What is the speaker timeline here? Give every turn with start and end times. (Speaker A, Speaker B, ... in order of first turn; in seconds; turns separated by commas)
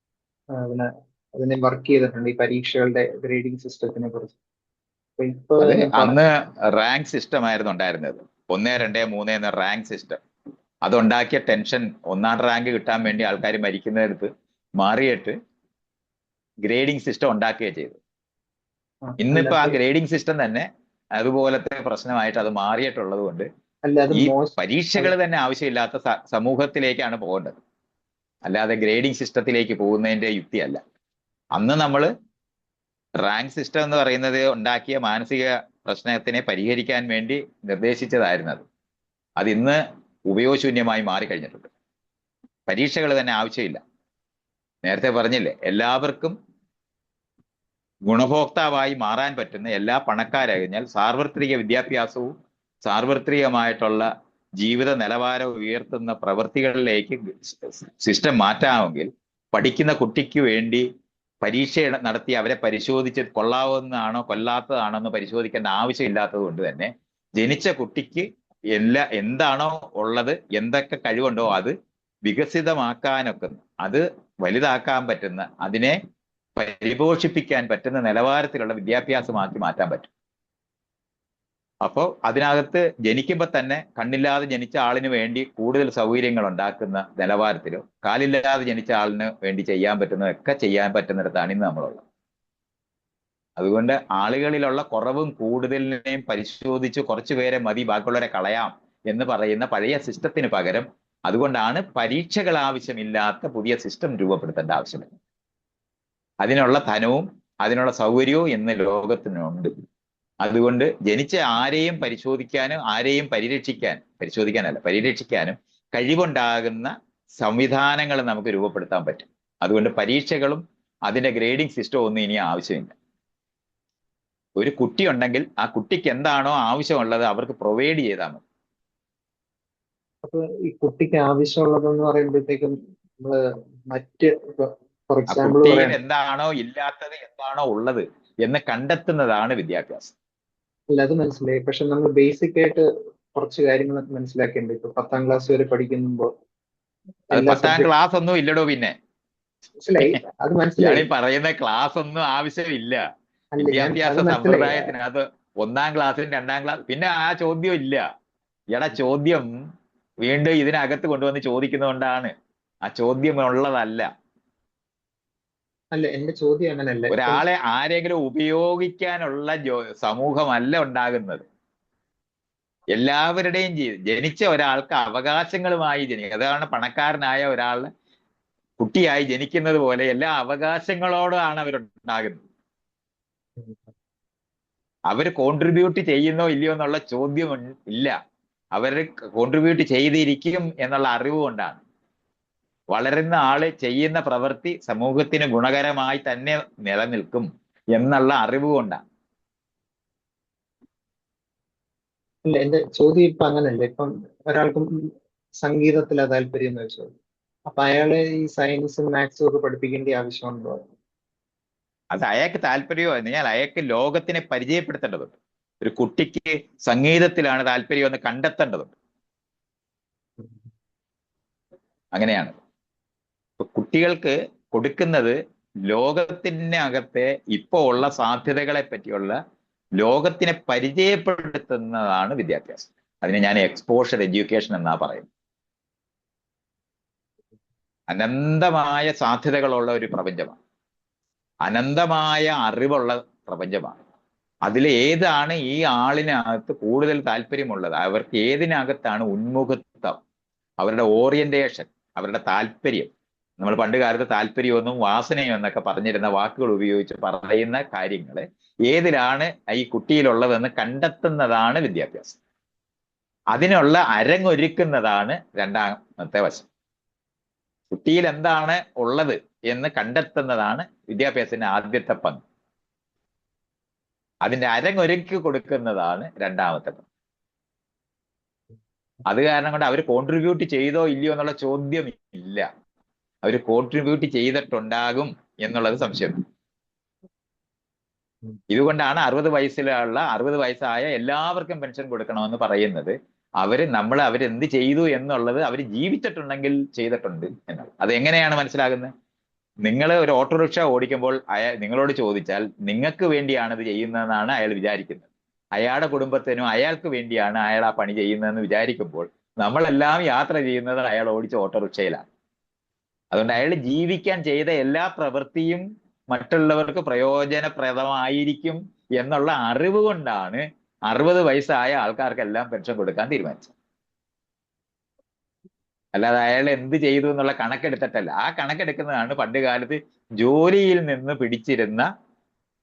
Speaker A: 0.5-4.4, Speaker A: 5.2-6.2, Speaker B: 5.6-10.2, Speaker B: 10.8-15.3, Speaker B: 16.6-18.0, Speaker A: 19.1-19.8, Speaker B: 19.2-23.5, Speaker A: 23.9-25.1, Speaker B: 24.1-27.6, Speaker B: 28.5-30.8, Speaker B: 31.6-32.1, Speaker B: 33.2-38.6, Speaker B: 39.4-41.7, Speaker B: 42.7-43.8, Speaker B: 44.9-46.4, Speaker B: 48.1-52.3, Speaker B: 52.9-60.9, Speaker B: 61.4-71.7, Speaker B: 72.2-76.0, Speaker B: 76.6-80.1, Speaker B: 81.8-92.0, Speaker B: 93.6-105.1, Speaker B: 106.4-109.7, Speaker B: 110.4-122.9, Speaker B: 124.6-128.4, Speaker A: 130.2-136.0, Speaker B: 135.3-140.1, Speaker A: 140.9-146.3, Speaker A: 147.3-147.9, Speaker B: 147.3-148.9, Speaker A: 149.8-151.1, Speaker B: 150.8-153.0, Speaker A: 153.6-154.9, Speaker B: 153.6-158.0, Speaker B: 158.7-159.5, Speaker B: 160.2-162.3, Speaker B: 162.9-164.1, Speaker A: 165.9-167.4, Speaker B: 167.1-171.4, Speaker B: 172.9-177.9, Speaker B: 178.8-182.4, Speaker B: 185.1-188.2, Speaker B: 188.8-191.8, Speaker B: 192.9-199.0, Speaker A: 202.4-205.1, Speaker A: 205.6-207.1, Speaker A: 207.7-210.8, Speaker B: 212.1-218.9, Speaker B: 222.1-222.6, Speaker B: 223.6-225.4, Speaker B: 225.9-229.4, Speaker B: 230.0-235.3, Speaker B: 238.1-240.6, Speaker B: 241.7-244.0, Speaker B: 244.7-250.2, Speaker B: 250.8-262.4, Speaker B: 263.5-266.7, Speaker B: 267.9-272.4, Speaker B: 274.4-277.0, Speaker B: 279.3-282.7, Speaker B: 283.4-286.4, Speaker B: 288.7-299.1, Speaker B: 299.9-312.2, Speaker B: 313.3-323.7, Speaker B: 326.1-332.1